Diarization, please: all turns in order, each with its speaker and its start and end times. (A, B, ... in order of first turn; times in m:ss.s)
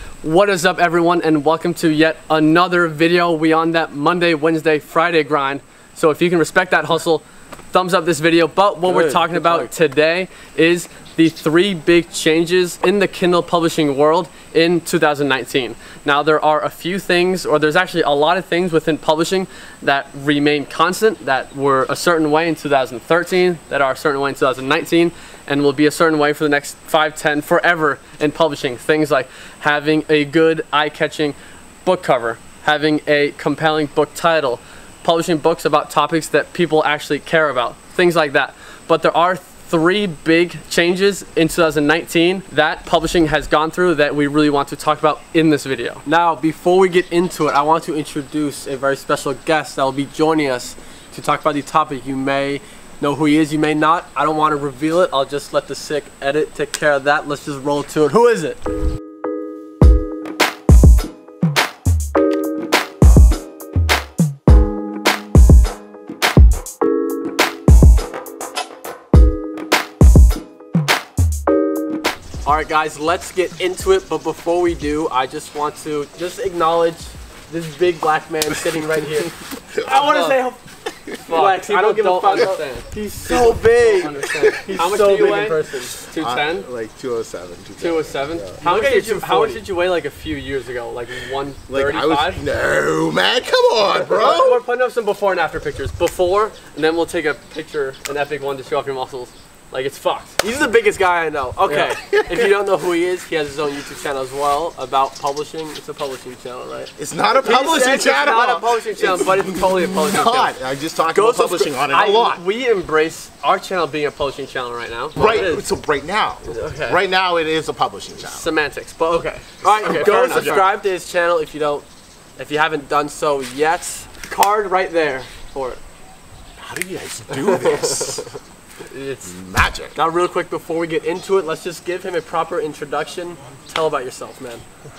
0:00.2-0:46.0 A
0:08.8-0:09.7 B
0:46.0-0:58.6 B
1:12.4-1:20.6 B
1:19.8-1:20.4 A
1:21.2-1:26.7 A
1:21.3-1:25.9 B
1:26.1-1:28.6 C
1:27.8-1:32.4 A
1:28.6-1:29.6 B
1:31.7-1:34.6 C
1:34.0-1:40.4 A
1:40.4-1:46.9 B
1:41.8-1:42.5 C
1:47.0-1:52.4 C
1:47.4-1:50.6 A
1:47.7-1:48.0 B
1:51.1-1:51.8 B
1:51.9-1:55.6 A
1:55.2-1:58.5 C
1:55.2-1:55.6 B
1:56.5-1:57.0 A
1:58.2-2:00.8 A
1:59.5-2:01.8 B
1:59.8-2:00.7 C
2:02.4-2:05.8 B
2:06.6-2:08.2 C
2:07.3-2:08.4 B
2:08.9-2:09.4 A
2:09.2-2:10.0 C
2:09.9-2:14.6 B